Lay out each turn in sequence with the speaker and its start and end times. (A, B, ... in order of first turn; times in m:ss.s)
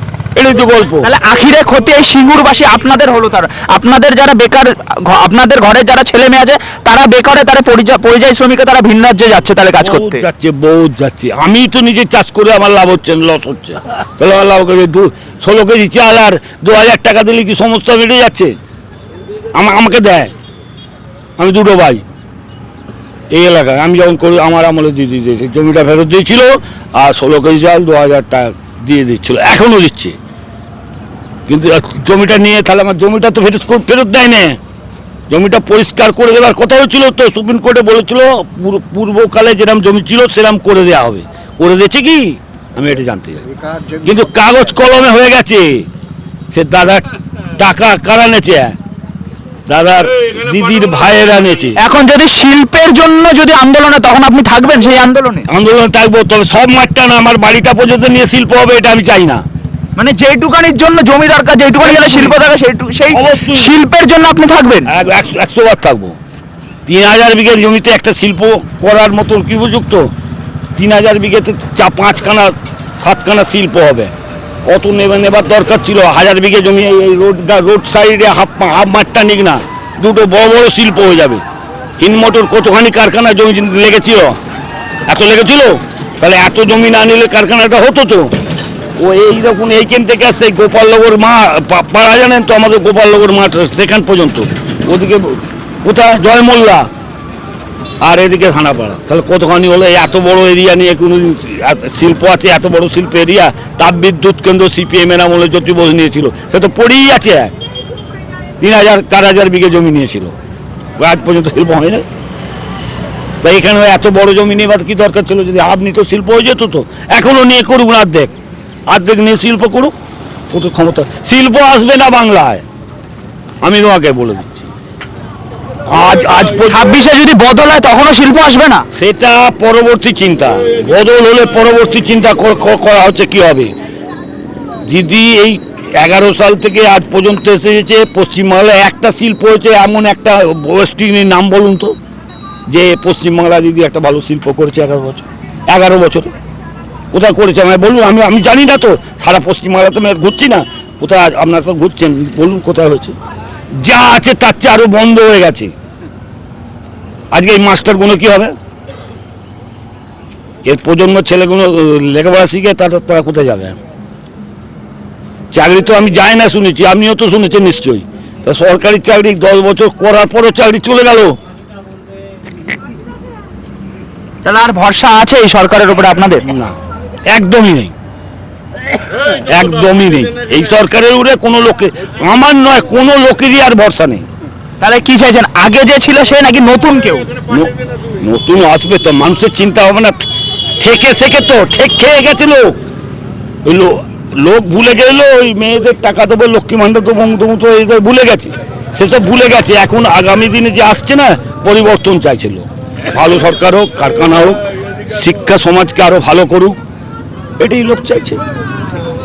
0:00.4-0:01.1 A
0:01.0-0:10.3 B
0:09.8-0:18.5 A
0:19.5-0:20.3 A
0:21.4-0:22.0 A
0:23.3-0:30.2 A
0:31.5-0:34.6 A
0:35.3-0:43.4 A
0:44.0-0:45.9 A
0:46.5-0:47.1 A
0:47.6-0:48.8 A
0:49.7-0:51.8 A
0:51.8-0:55.5 B
0:55.5-0:59.4 A
1:00.0-1:04.9 B
1:01.8-1:02.4 A
1:03.1-1:03.7 A
1:04.9-1:06.2 A
1:06.9-1:10.1 A
1:10.8-1:14.1 A
1:14.6-1:21.4 A
1:22.0-1:24.4 A
1:25.1-1:28.3 A
1:29.0-1:36.9 A
1:38.0-1:47.5 A
1:48.6-1:50.4 A
1:51.0-1:52.0 A
1:53.4-1:58.4 A
1:58.9-1:59.9 A
2:00.5-2:02.6 A
2:03.6-2:04.7 A
2:05.9-2:07.0 A
2:06.7-2:08.9 B
2:09.0-2:13.7 A
2:14.8-2:21.9 A
2:22.7-2:26.3 A
2:27.1-2:33.2 A
2:33.8-2:35.7 A
2:37.3-2:38.5 A
2:40.6-2:43.8 A
2:45.5-2:51.4 A
2:54.4-2:56.5 B
2:56.5-2:56.8 A
2:57.3-2:57.9 A
2:59.2-3:04.3 A
3:04.8-3:07.3 B
3:07.5-3:10.2 A
3:10.8-3:12.8 A
3:13.6-3:26.8 A
3:27.6-3:28.4 A